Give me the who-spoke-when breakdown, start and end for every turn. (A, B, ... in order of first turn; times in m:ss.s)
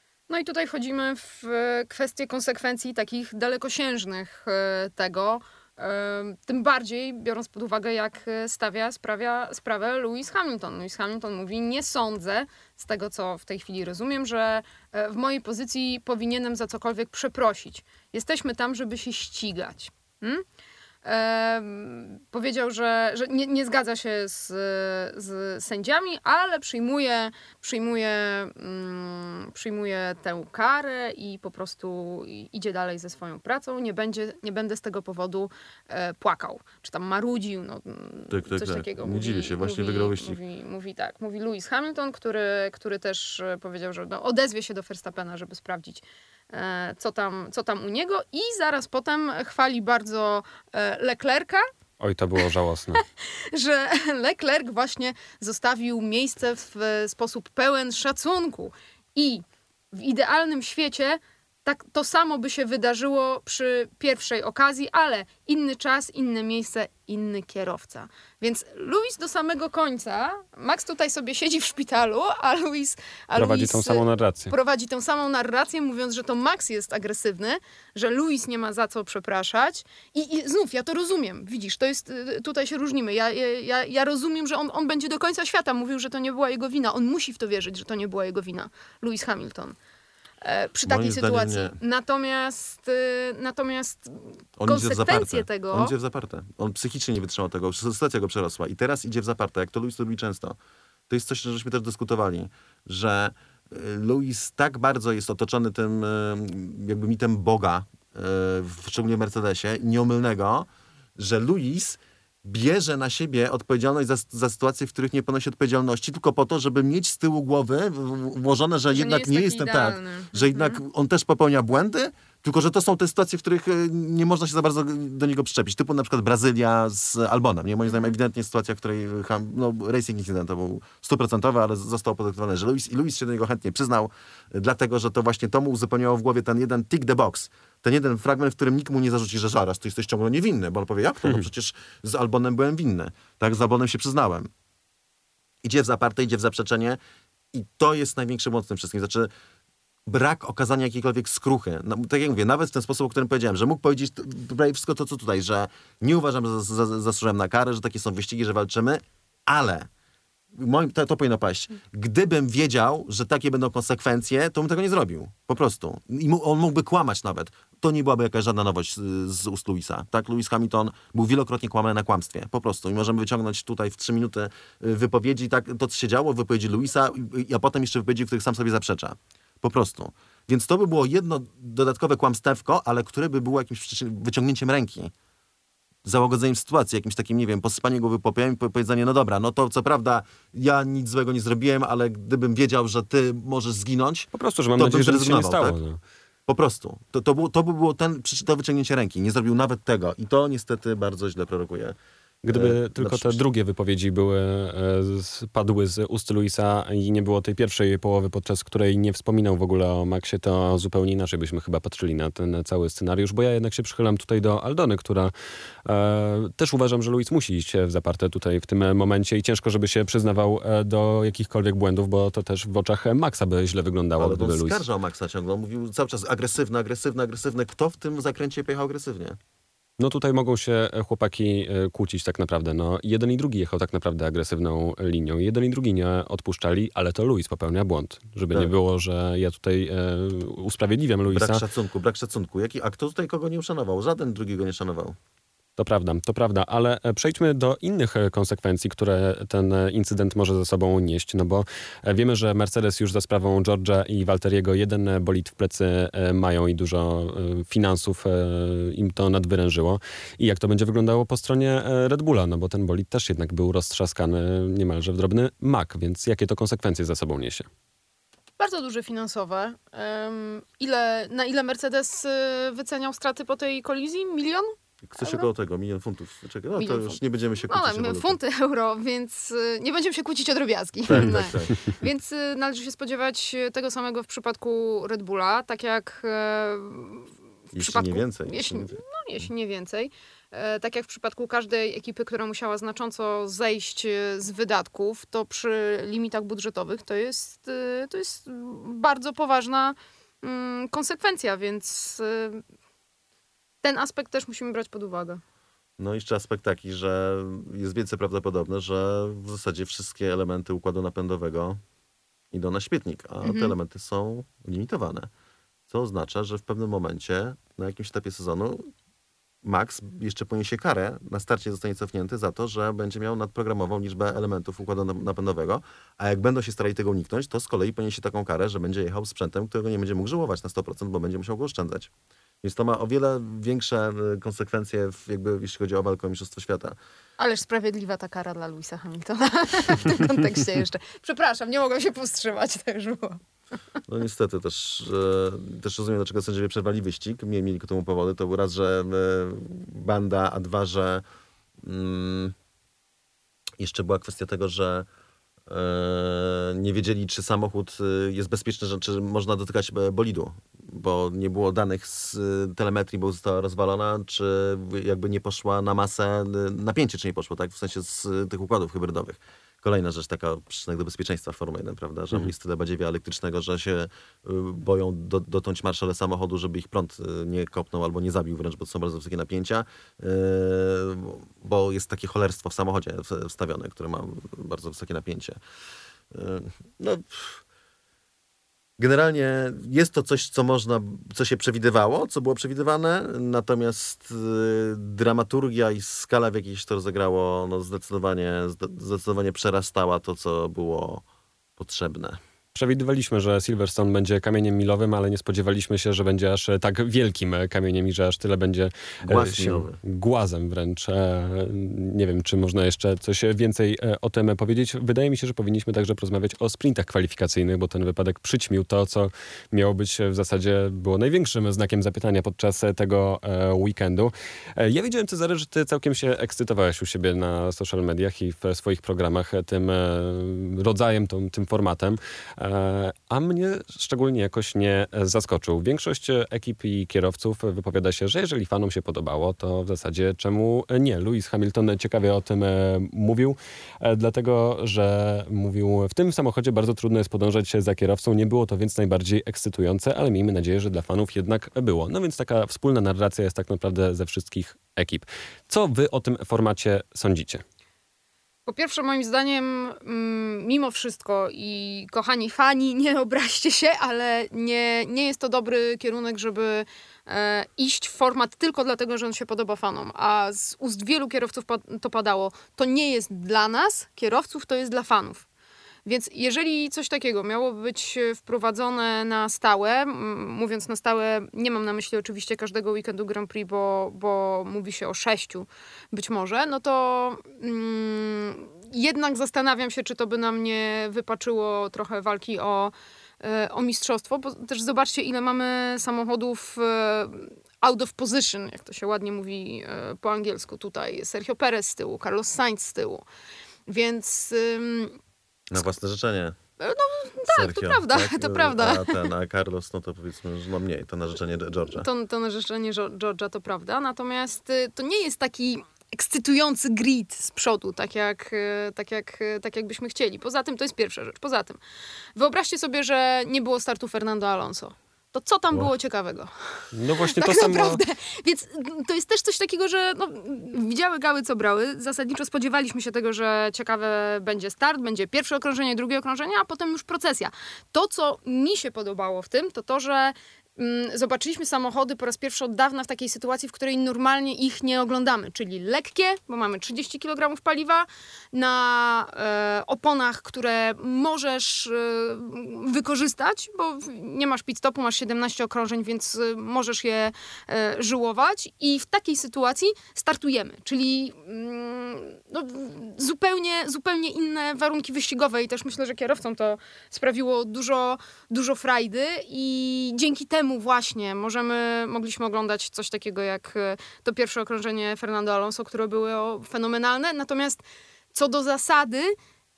0:00.3-0:20.4 A
0:21.0-0:51.7 A
0:38.3-0:40.4 B
0:52.0-0:53.0 C
0:53.0-1:29.8 A
1:13.4-1:14.5 C
1:30.4-1:35.9 A
1:30.8-1:31.8 B
1:34.6-1:40.6 B
1:41.1-2:24.5 B
1:58.9-2:00.8 A
2:25.6-2:27.0 B
2:27.5-2:29.3 B
2:30.0-2:39.9 B
2:40.5-3:05.1 B
3:06.0-3:15.8 B
3:14.3-3:16.0 C
3:16.5-3:22.0 B
3:22.4-3:35.3 C
3:22.5-3:23.4 B
3:35.8-3:44.8 C
3:44.2-3:49.4 B
3:50.0-4:01.6 C
4:01.3-4:05.2 B
4:05.8-4:27.7 C
4:28.6-4:35.5 A
4:35.1-4:38.4 B
4:36.8-5:02.6 A
4:41.1-4:41.8 B
4:47.7-4:49.0 B
5:03.8-5:05.4 A
5:06.0-5:11.8 B
5:12.5-5:15.3 B
5:13.4-5:13.7 A
5:15.9-5:18.9 B
5:19.6-5:32.1 B
5:32.6-5:37.0 B
5:37.4-5:43.4 A
5:44.1-5:51.2 B
5:51.8-5:52.6 B
5:53.8-5:55.1 B
5:55.7-6:25.6 B
6:26.3-6:27.6 B
6:29.0-6:41.2 B
6:41.8-6:42.4 B
6:42.7-7:37.6 C
6:49.2-6:50.0 B
7:38.6-7:55.4 A
7:56.0-8:23.2 A
8:23.9-8:25.2 A
8:25.7-8:26.6 B
8:26.8-8:29.3 A
8:27.5-8:32.1 B
8:31.9-8:41.8 A
8:42.4-9:37.8 A
8:46.9-8:48.0 C
9:38.3-9:39.4 A